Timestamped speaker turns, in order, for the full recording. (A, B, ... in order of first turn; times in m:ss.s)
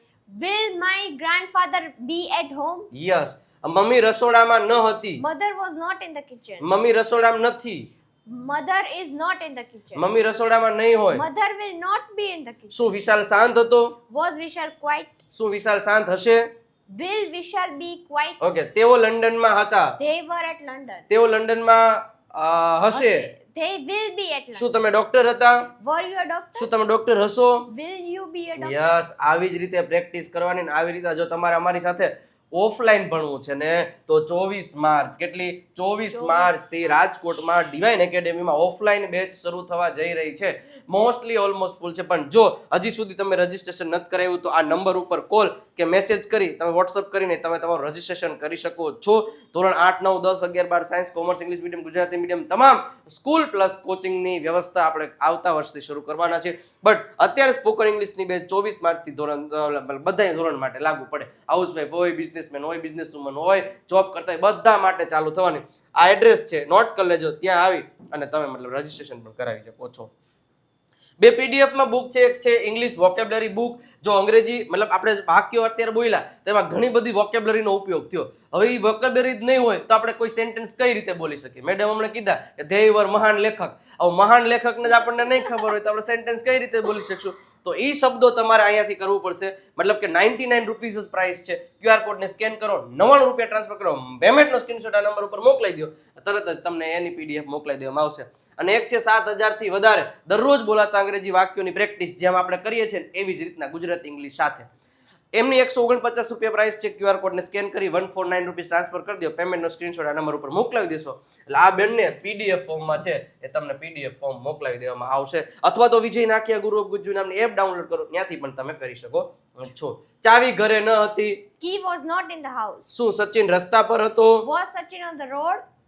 0:00.3-0:02.9 A
0:02.9-0:05.2 B
0:05.2-0:06.7 A
0:06.6-0:07.9 B
0:08.3-0:10.0 A
0:09.9-0:11.2 B
0:11.1-0:12.9 A
0:12.7-0:13.9 B
0:14.1-0:15.2 A
0:15.3-0:16.5 B
0:16.9-0:18.4 A
0:18.4-0:20.0 B
0:20.0-0:21.1 A
0:21.1-0:23.3 B
0:22.9-0:24.8 A
0:24.5-0:25.7 B
0:25.8-0:26.7 A
0:26.6-0:27.7 B
0:27.7-0:29.0 A
0:28.6-1:10.1 B
0:36.1-0:36.6 A
1:11.2-1:44.7 B
1:45.3-2:01.4 B
2:01.6-2:02.9 A
2:02.9-2:04.4 B
2:04.4-2:05.6 A